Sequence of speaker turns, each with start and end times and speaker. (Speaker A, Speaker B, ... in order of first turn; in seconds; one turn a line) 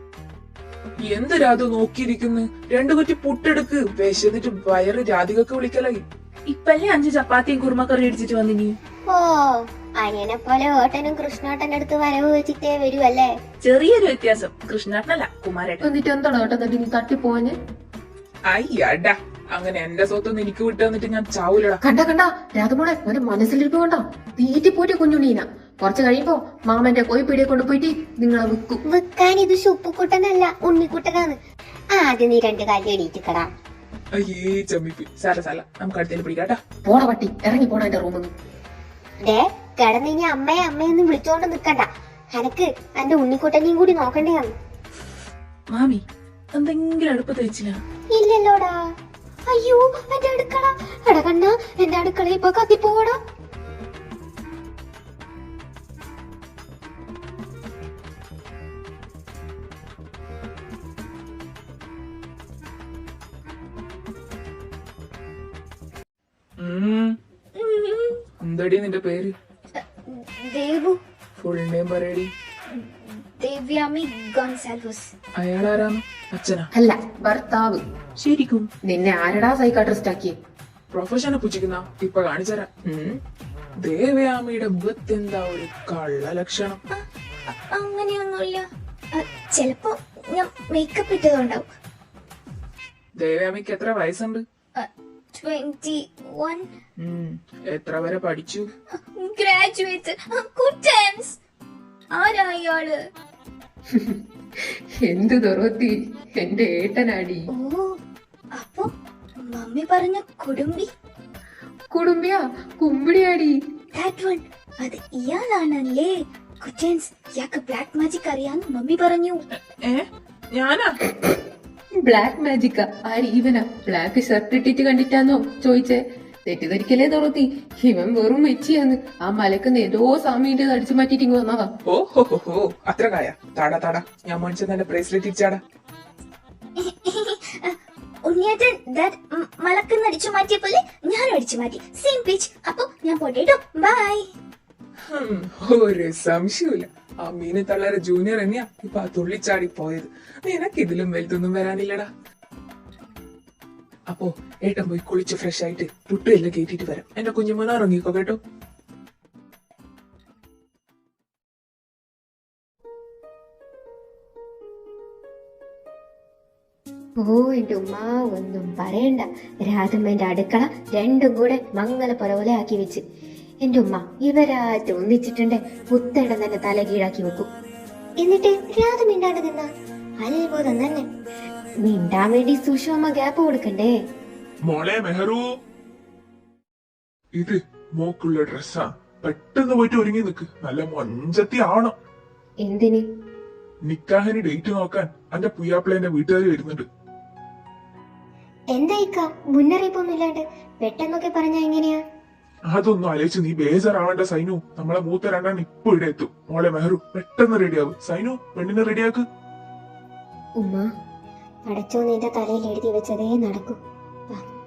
Speaker A: 1.1-8.8
Speaker B: 9.1-13.3
Speaker A: 13.6-15.9
Speaker C: 15.8-17.5
Speaker A: 18.5-21.8
Speaker C: 21.8-28.8
Speaker B: 28.9-31.4
Speaker B: 31.9-33.5
Speaker A: 34.2-36.6
Speaker C: 36.9-38.3
Speaker B: 39.2-44.5
Speaker A: 45.7-46.0
Speaker A: 46.5-47.8
Speaker B: 48.1-48.7
Speaker B: 49.5-53.2
Speaker A: 66.6-67.2
Speaker D: 67.5-68.2
Speaker A: 68.4-69.3
Speaker D: 69.8-71.0
Speaker A: 71.4-72.3
Speaker D: 72.7-75.1
Speaker A: 75.4-76.7
Speaker C: 76.8-77.8
Speaker A: 78.2-78.7
Speaker C: 78.9-80.3
Speaker A: 80.9-83.2
Speaker A: 83.8-86.8
Speaker D: 86.9-91.7
Speaker A: 93.2-94.4
Speaker D: 94.8-96.7
Speaker A: 97.0-98.7
Speaker D: 98.9-101.4
Speaker D: 102.1-103.0
Speaker C: 103.9-107.5
Speaker D: 107.5-108.0
Speaker D: 108.5-110.9
Speaker C: 111.9-113.5
Speaker D: 114.0-119.4
Speaker A: 119.5-120.9
Speaker C: 122.0-131.7
Speaker A: 131.9-135.6
Speaker D: 136.8-144.2
Speaker A: 145.1-152.1
Speaker A: 154.1-158.4
Speaker B: 167.2-173.0
Speaker B: 173.6-177.5
Speaker B: 178.2-179.7
Speaker B: 180.2-181.1
Speaker B: 181.8-183.9
Speaker E: 184.7-185.4
Speaker E: 187.4-191.9
Speaker B: 192.7-193.0
Speaker E: 193.8-196.9
Speaker B: 198.7-202.0
Speaker E: 202.7-209.2
Speaker B: 210.6-210.9
Speaker B: 211.7-213.8